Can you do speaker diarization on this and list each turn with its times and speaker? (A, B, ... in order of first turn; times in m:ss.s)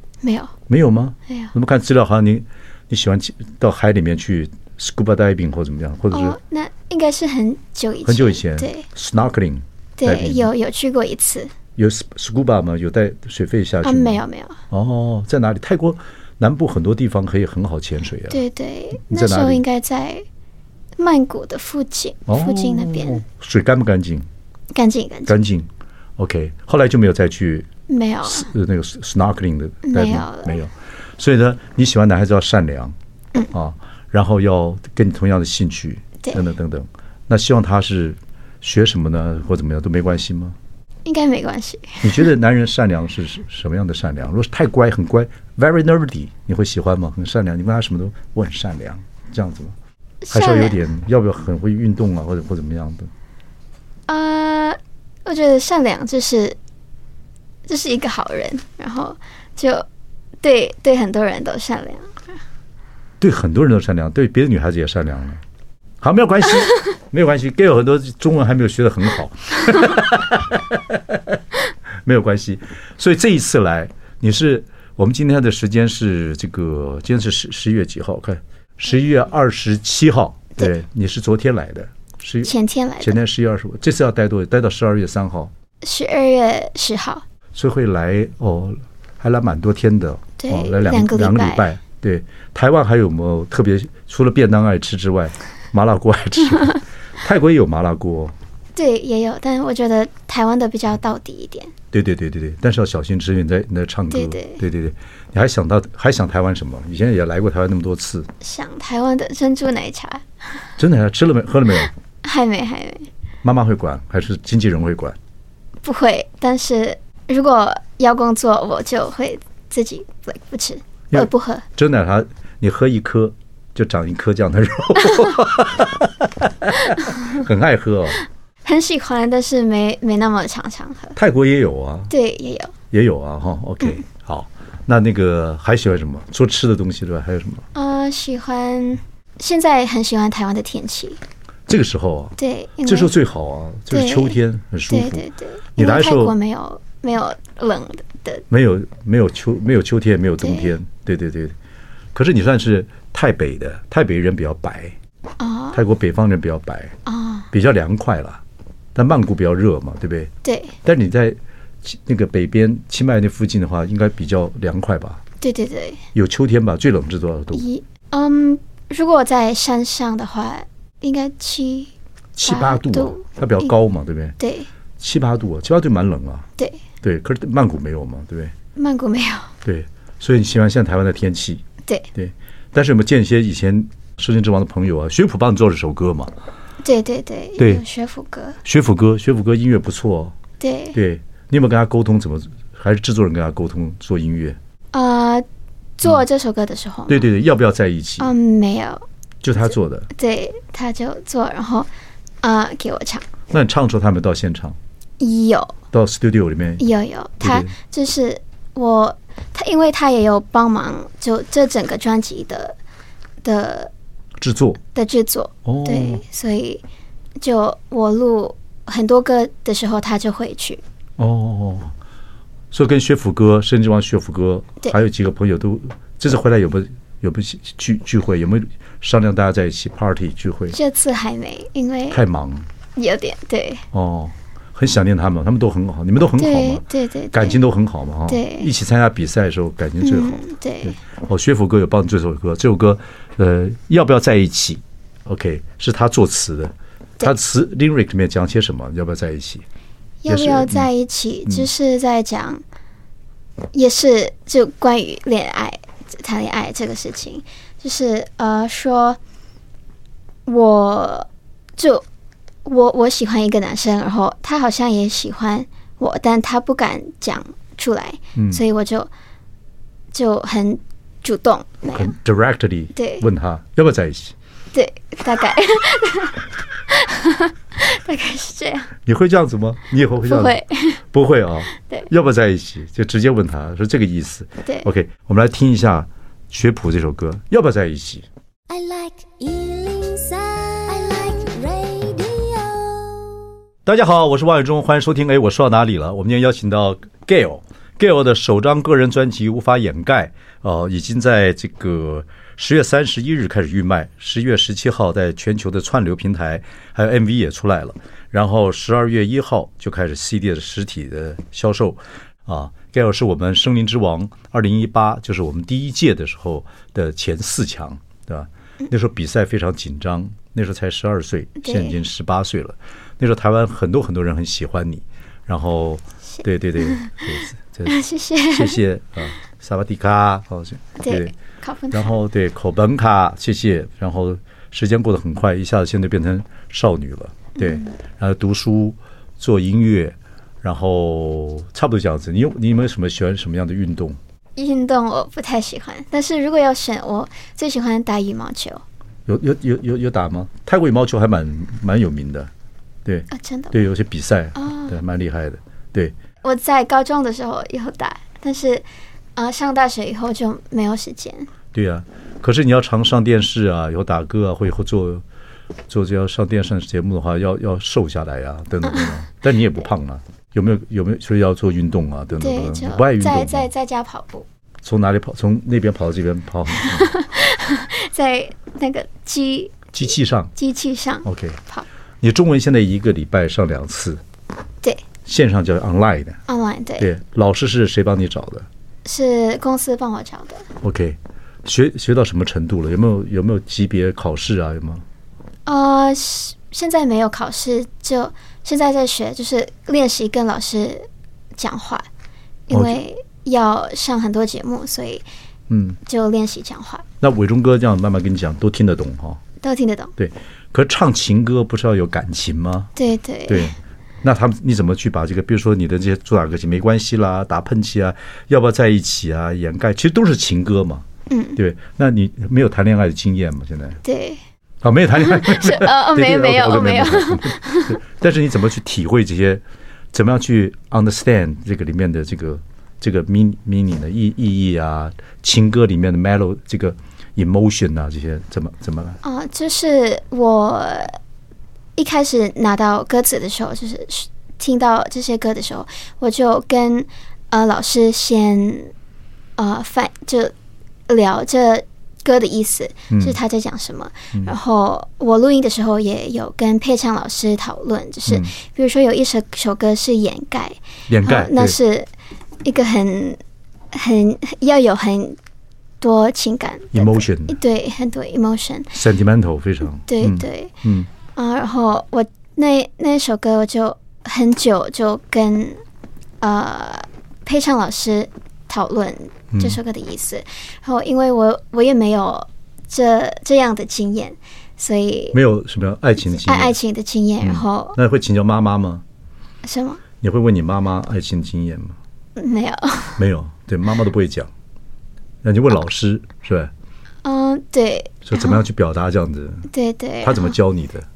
0:00.2-0:00.5 A
0:00.7-0:06.4 B
0:06.1-0:08.8 A
0:08.0-0:10.5 B
0:10.0-0:11.5 A
0:11.8-0:18.4 B
0:13.8-0:14.6 A
0:18.3-0:20.2 A
0:19.0-0:19.6 B
0:21.0-0:23.2 A
0:22.3-0:24.3 B
0:24.7-0:25.4 A
0:25.3-0:27.7 B
0:27.9-0:28.5 A
0:28.2-0:32.9 B
0:29.8-0:30.6 A
0:33.5-0:40.6 B
0:41.0-0:42.3 A
0:42.0-0:49.7 B
0:50.2-0:50.8 A
0:50.3-0:53.1 B
0:54.1-0:56.6 A
0:57.7-0:59.8 A
1:00.4-1:02.2 A
1:03.2-1:05.4 B
1:06.0-1:11.4 B
1:12.0-1:25.5 B
1:22.4-1:23.2 A
1:25.8-1:27.2 A
1:27.5-1:38.3 B
1:30.4-1:31.7 A
1:38.8-1:41.7 A
1:41.9-1:48.3 B
1:44.1-1:44.6 A
1:48.4-1:50.2 A
1:50.8-1:51.9 B
1:52.2-1:53.1 A
1:53.4-1:55.2 B
1:55.8-2:01.6 A
2:01.1-2:08.2 B
2:08.6-2:11.2 A
2:11.2-2:12.1 B
2:12.1-2:12.7 A
2:12.9-2:17.6 B
2:17.7-2:21.2 A
2:21.7-2:26.4 B
2:22.4-2:23.1 A
2:23.9-2:24.4 A
2:24.9-2:28.4 A
2:28.5-2:31.5 B
2:30.4-2:30.7 A
2:32.1-2:34.9 B
2:35.4-2:35.8 A
2:35.7-2:36.9 B
2:37.0-2:37.5 A
2:37.5-2:38.4 B
2:38.9-2:40.3 B
2:40.4-2:40.7 A
2:40.8-2:45.2 B
2:45.4-2:46.0 A
2:46.1-2:47.6 B
2:47.5-2:51.9 A
2:52.4-2:54.4 B
2:52.4-2:53.7 A
2:54.4-2:54.7 A
2:55.0-2:56.5 B
2:57.0-2:58.5 B
2:58.8-2:59.5 A
2:59.6-3:01.6 B
3:02.1-3:06.3 B
3:06.8-3:08.6 A
3:07.6-3:07.8 B
3:08.6-3:10.3 B
3:10.6-3:11.0 A
3:10.9-3:14.6 B
3:14.9-3:15.4 A
3:16.0-3:17.2 A
3:17.1-3:18.3 B
3:18.2-3:19.0 A
3:19.4-3:20.1 B
3:20.1-3:21.9 A
3:22.4-3:23.3 A
3:23.5-3:24.8 B
3:25.2-3:25.8 A
3:25.9-3:26.8 B
3:26.8-3:32.8 A
3:27.4-3:27.7 B
3:33.4-3:33.9 A
3:34.4-3:34.8 B
3:34.9-3:36.8 A
3:35.6-3:36.2 B
3:37.4-3:40.8 A
3:41.2-3:41.9 B
3:42.7-3:50.8 B
3:50.7-3:52.2 A
3:52.1-3:52.7 B
3:53.0-3:53.8 A
3:53.9-4:09.6 B
3:56.4-3:57.6 A
3:58.3-3:58.7 A
4:00.0-4:01.0 A
4:10.2-4:12.6 A
4:10.3-4:10.9 B
4:13.7-4:19.2 A
4:20.4-4:22.0 A
4:22.6-4:29.1 A
4:28.3-4:28.6 B
4:30.1-4:32.1 A
4:31.9-4:34.3 B
4:32.9-4:33.2 A
4:34.7-4:38.9 A
4:39.0-4:40.6 B
4:40.2-4:41.0 A
4:41.1-4:48.2 B
4:41.7-4:42.1 A
4:48.7-4:53.4 C
4:53.8-5:28.0 B
5:21.6-5:22.0 A
5:26.8-5:27.2 A
5:27.8-5:28.8 A
5:28.5-5:31.3 B
5:31.0-5:32.2 A
5:31.9-5:44.2 B
5:37.6-5:37.9 A
5:44.6-5:48.8 A
5:49.2-5:52.5 B
5:53.0-5:56.1 B
5:53.3-5:53.7 A
5:54.6-5:55.0 A
5:56.4-5:58.8 A
5:59.4-6:01.5 A
6:01.7-6:05.2 B
6:05.9-6:13.7 B
6:08.8-6:09.1 A
6:12.4-6:14.4 A
6:14.8-6:17.1 B
6:16.8-6:21.8 A
6:19.9-6:20.5 B
6:21.2-6:21.6 B
6:22.2-6:24.2 B
6:25.2-6:26.4 B
6:26.5-6:27.1 A
6:27.0-6:28.7 B
6:29.0-6:30.6 A
6:30.8-6:35.0 B
6:35.6-6:42.1 A
6:42.7-6:45.2 A
6:42.7-6:43.0 B
6:45.7-6:46.0 B
6:46.0-6:47.0 A
6:47.2-6:49.4 B
6:49.6-6:50.1 A
6:50.2-6:52.9 B
6:53.0-6:53.7 A
6:53.5-7:01.0 B
7:01.3-7:01.6 A
7:01.6-7:04.0 B
7:04.0-7:04.4 A
7:04.8-7:19.2 B
7:05.2-7:08.0 A
7:19.2-7:21.2 A
7:22.0-7:28.9 A
7:29.6-7:30.5 A
7:31.1-7:42.1 A
7:33.1-7:33.4 B
7:38.3-7:38.5 B
7:41.1-7:41.8 B
7:42.6-7:43.4 A
7:43.9-7:45.4 A
7:46.0-7:48.9 A
7:46.9-7:47.6 B
7:48.9-7:51.1 B
7:50.1-7:50.7 A
7:51.3-7:55.8 A
7:56.4-8:05.4 A
7:59.5-7:59.8 B
8:05.3-8:06.8 B
8:06.3-8:08.0 A
8:07.4-8:09.0 B
8:09.6-8:10.0 A
8:10.2-8:12.0 B
8:12.4-8:13.2 A
8:13.2-8:14.5 B
8:15.4-8:16.7 B
8:17.2-8:18.6 A
8:18.2-8:19.7 B
8:19.7-8:20.6 A
8:20.2-8:21.0 B